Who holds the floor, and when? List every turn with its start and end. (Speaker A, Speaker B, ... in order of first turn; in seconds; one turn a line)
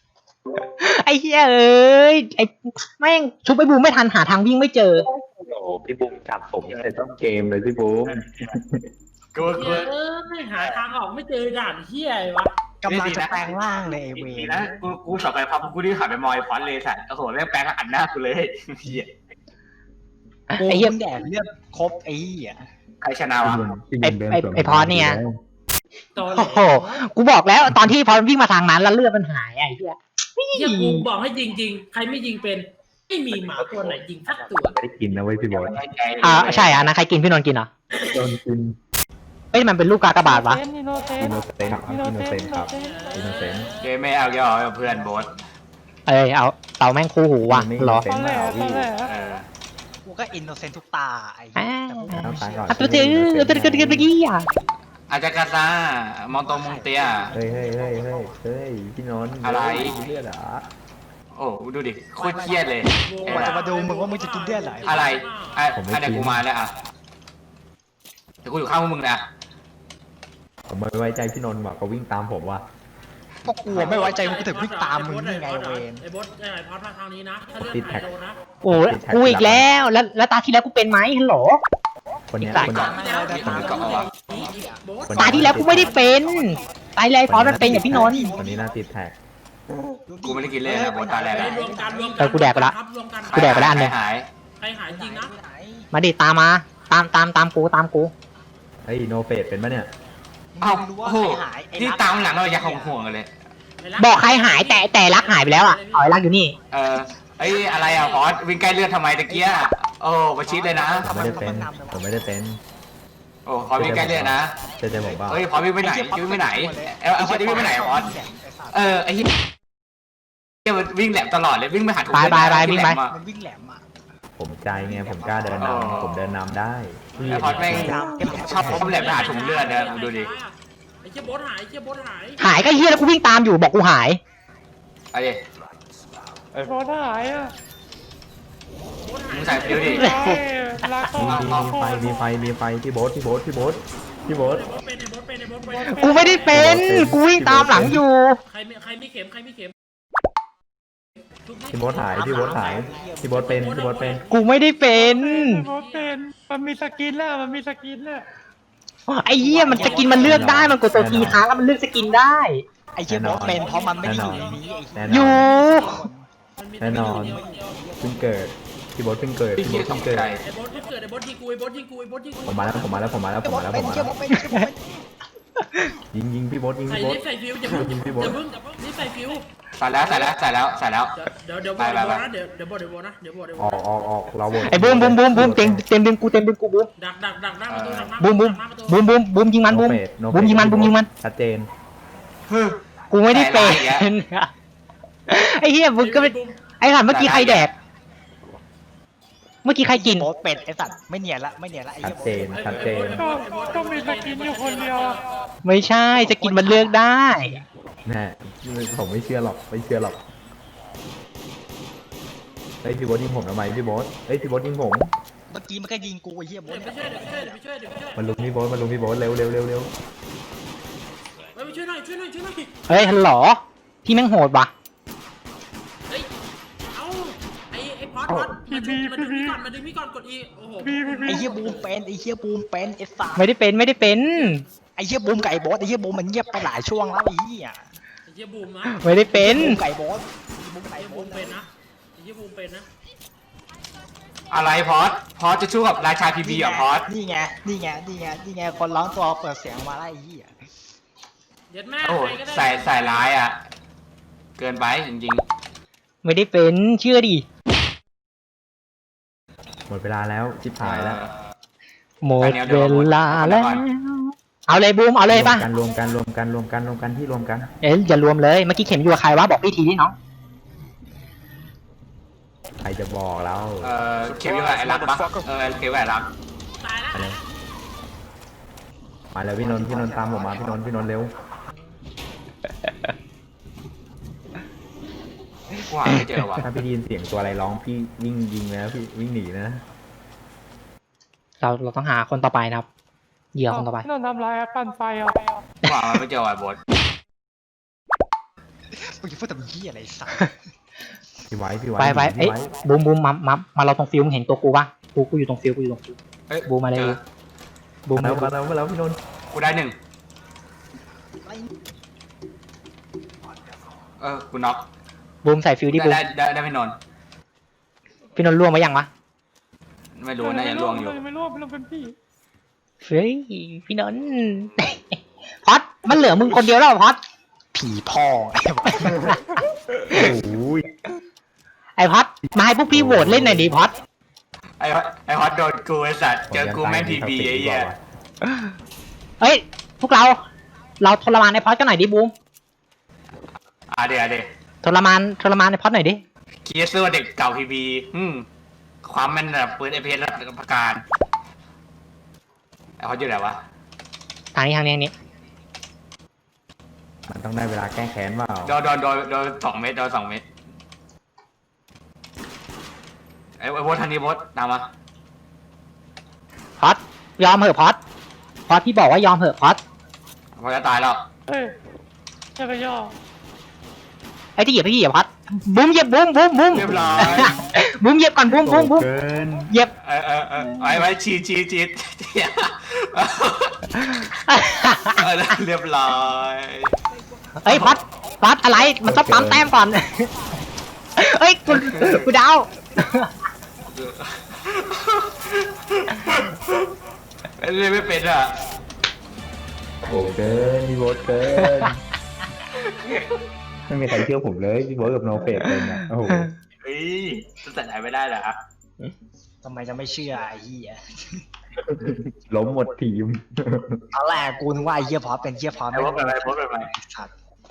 Speaker A: 0.6-5.0
Speaker B: 5.1-8.8
Speaker C: 9.3-9.9
Speaker D: 9.5-12.5
Speaker E: 12.8-14.7
Speaker C: 12.9-19.1
Speaker A: 20.5-20.9
Speaker E: 20.6-22.7
Speaker C: 23.0-23.6
Speaker B: 23.4-25.4
Speaker A: 24.0-25.2
Speaker D: 26.1-27.1
Speaker A: 26.3-31.1
Speaker D: 30.5-34.8
Speaker C: 33.6-34.0
Speaker B: 34.6-35.8
Speaker C: 35.5-36.8
Speaker A: 36.2-37.7
Speaker B: 38.1-38.8
Speaker A: 39.5-40.6
Speaker F: 40.2-43.1
Speaker B: 41.1-43.7
Speaker D: 42.8-44.0
Speaker C: 43.8-45.3
Speaker E: 44.8-45.4
Speaker A: 46.1-48.1
Speaker B: 47.4-48.9
Speaker F: 48.0-49.1
Speaker C: 49.0-49.5
Speaker E: 50.0-53.0
Speaker A: 51.5-54.5
Speaker B: 52.1-54.1
Speaker C: 55.1-57.3
Speaker E: 56.3-58.3
Speaker B: 57.3-60.7
Speaker C: 59.4-59.9
Speaker E: 59.8-60.1
Speaker C: 61.3-63.6
Speaker E: 62.2-65.2
Speaker D: 62.8-65.8
Speaker C: 64.8-66.7
Speaker B: 65.7-66.4
Speaker C: 68.4-69.2
Speaker B: 70.7-72.7
Speaker E: 73.4-76.0
Speaker B: 73.7-74.0
Speaker D: 73.8-78.5
Speaker B: 77.6-78.1
Speaker A: 78.6-81.6
Speaker B: 78.7-79.7
Speaker B: 82.3-83.8
Speaker E: 82.4-86.7
Speaker C: 82.5-84.1
Speaker D: 82.9-86.1
Speaker B: 85.0-85.9
Speaker A: 85.2-88.2
Speaker B: 87.2-89.2
Speaker E: 87.5-88.9
Speaker E: 90.0-92.3
Speaker C: 90.2-91.5
Speaker D: 91.2-93.7
Speaker A: 92.2-92.8
Speaker A: 93.3-93.9
Speaker C: 93.3-94.3
Speaker D: 94.6-95.3
Speaker E: 94.8-95.9
Speaker A: 95.9-98.1
Speaker B: 98.8-99.9
Speaker E: 100.5-103.0
Speaker C: 100.6-103.3
Speaker D: 103.8-106.2
Speaker A: 104.0-106.5
Speaker C: 106.7-111.1
Speaker D: 107.5-108.3
Speaker E: 109.2-109.7
Speaker E: 110.4-112.1
Speaker B: 111.0-112.6
Speaker C: 113.5-114.6
Speaker B: 113.8-115.5
Speaker E: 115.0-119.0
Speaker C: 115.3-118.2
Speaker C: 118.7-119.3
Speaker C: 120.6-123.1
Speaker A: 122.1-123.0
Speaker E: 122.4-123.8
Speaker B: 124.4-128.9
Speaker E: 124.7-126.3
Speaker C: 125.6-126.2
Speaker E: 127.2-129.3
Speaker C: 127.2-130.3
Speaker D: 128.8-132.4
Speaker A: 132.4-134.2
Speaker C: 135.1-135.4
Speaker F: 136.6-137.5
Speaker D: 139.0-140.2
Speaker C: 139.3-140.1
Speaker A: 139.8-140.4
Speaker F: 139.8-142.2
Speaker B: 141.1-144.7
Speaker C: 141.2-141.7
Speaker D: 144.4-146.7
Speaker A: 145.8-148.4
Speaker F: 145.8-146.5
Speaker B: 146.5-148.0
Speaker D: 148.4-149.7
Speaker D: 151.4-152.7
Speaker B: 151.7-154.3
Speaker E: 152.2-153.7
Speaker D: 153.4-156.3
Speaker A: 154.3-155.6
Speaker F: 155.1-158.2
Speaker A: 159.1-162.6
Speaker E: 159.4-160.5
Speaker D: 159.7-161.1
Speaker B: 160.2-161.4
Speaker E: 162.9-166.3
Speaker B: 163.1-165.7
Speaker D: 163.3-165.0
Speaker A: 165.1-165.9
Speaker D: 165.7-166.0
Speaker D: 166.6-167.8
Speaker B: 166.8-167.4
Speaker E: 166.8-168.3
Speaker B: 168.0-170.3
Speaker C: 169.6-170.4
Speaker D: 170.4-173.3
Speaker B: 172.4-174.2
Speaker E: 173.4-174.8
Speaker A: 174.3-174.7
Speaker B: 176.1-178.4
Speaker D: 176.9-179.5
Speaker C: 179.8-181.1
Speaker D: 180.0-180.3
Speaker D: 181.1-183.8
Speaker C: 181.8-182.3
Speaker B: 183.6-185.8
Speaker A: 184.6-186.9
Speaker D: 187.0-189.0
Speaker C: 187.7-188.2
Speaker A: 188.2-191.1
Speaker B: 189.7-191.7
Speaker C: 192.5-194.1
Speaker A: 193.1-194.5
Speaker A: 195.3-197.7
Speaker D: 195.9-196.6
Speaker C: 197.1-197.7
Speaker A: 199.6-200.3
Speaker E: 199.9-203.2
Speaker B: 202.0-203.3
Speaker D: 202.5-205.2
Speaker F: 203.1-205.2
Speaker A: 205.6-207.5
Speaker E: 206.1-207.7
Speaker B: 208.1-210.2
Speaker B: 212.8-215.1
Speaker E: 215.5-217.6
Speaker D: 216.7-218.4
Speaker B: 218.1-219.9
Speaker D: 221.5-222.7
Speaker A: 222.9-224.7
Speaker D: 226.9-231.9
Speaker F: 228.6-229.6
Speaker F: 230.8-231.5
Speaker E: 231.2-233.5
Speaker A: 233.3-234.6
Speaker D: 234.3-234.6
Speaker E: 234.9-237.8
Speaker D: 238.2-239.5
Speaker A: 238.9-239.8
Speaker E: 239.3-241.7
Speaker D: 240.9-242.9
Speaker C: 244.5-247.1
Speaker E: 246.4-250.6
Speaker D: 251.7-253.3
Speaker C: 252.0-253.6
Speaker C: 254.6-255.4
Speaker A: 256.2-257.4
Speaker B: 259.9-261.2
Speaker C: 260.8-261.4
Speaker A: 262.2-265.7
Speaker C: 262.4-263.9
Speaker B: 265.3-267.7
Speaker A: 267.8-270.1
Speaker B: 272.8-273.9
Speaker C: 273.8-276.3
Speaker E: 274.5-275.4
Speaker D: 276.8-277.4
Speaker B: 277.1-277.4
Speaker B: 279.3-281.3
Speaker E: 279.6-280.8
Speaker C: 285.9-286.7
Speaker B: 286.6-289.8
Speaker A: 291.6-292.9
Speaker A: 293.5-294.1
Speaker F: 293.7-295.4
Speaker C: 295.8-296.8
Speaker E: 298.9-300.5
Speaker B: 301.5-302.7
Speaker A: 302.0-307.2
Speaker C: 306.5-307.2
Speaker A: 308.0-308.5
Speaker B: 308.1-309.2
Speaker C: 309.5-309.9
Speaker E: 311.4-311.7
Speaker C: 314.2-314.8
Speaker A: 315.4-316.2
Speaker C: 315.9-317.0
Speaker A: 318.4-319.1
Speaker C: 320.1-321.2
Speaker F: 320.4-322.1
Speaker A: 323.0-327.2
Speaker E: 327.7-329.4
Speaker B: 330.0-330.9
Speaker A: 332.0-333.9
Speaker B: 332.6-333.7
Speaker C: 334.8-337.9
Speaker B: 336.5-338.0
Speaker A: 339.4-340.4
Speaker A: 341.0-342.3
Speaker C: 343.9-344.5
Speaker A: 344.8-346.2
Speaker C: 346.6-348.4
Speaker C: 349.0-351.0
Speaker C: 353.0-353.6
Speaker A: 354.5-355.1
Speaker B: 357.3-358.8
Speaker C: 358.6-360.4
Speaker C: 363.6-364.9
Speaker A: 366.8-368.0
Speaker A: 368.7-369.8
Speaker C: 370.6-371.2
Speaker F: 371.5-371.8
Speaker F: 372.6-373.1
Speaker A: 374.6-379.1
Speaker C: 376.7-377.6
Speaker B: 376.7-377.6
Speaker B: 378.5-379.7
Speaker C: 380.0-384.2
Speaker A: 384.5-385.2
Speaker C: 385.1-386.9
Speaker A: 387.6-390.3
Speaker B: 389.0-389.7
Speaker A: 391.2-393.3
Speaker C: 391.7-392.2
Speaker C: 393.9-396.8
Speaker C: 397.6-398.6
Speaker B: 400.1-402.0
Speaker A: 401.6-401.9
Speaker B: 403.9-406.5
Speaker C: 406.8-408.6
Speaker E: 409.6-411.4
Speaker B: 411.9-414.0
Speaker E: 414.1-417.3
Speaker C: 415.9-416.9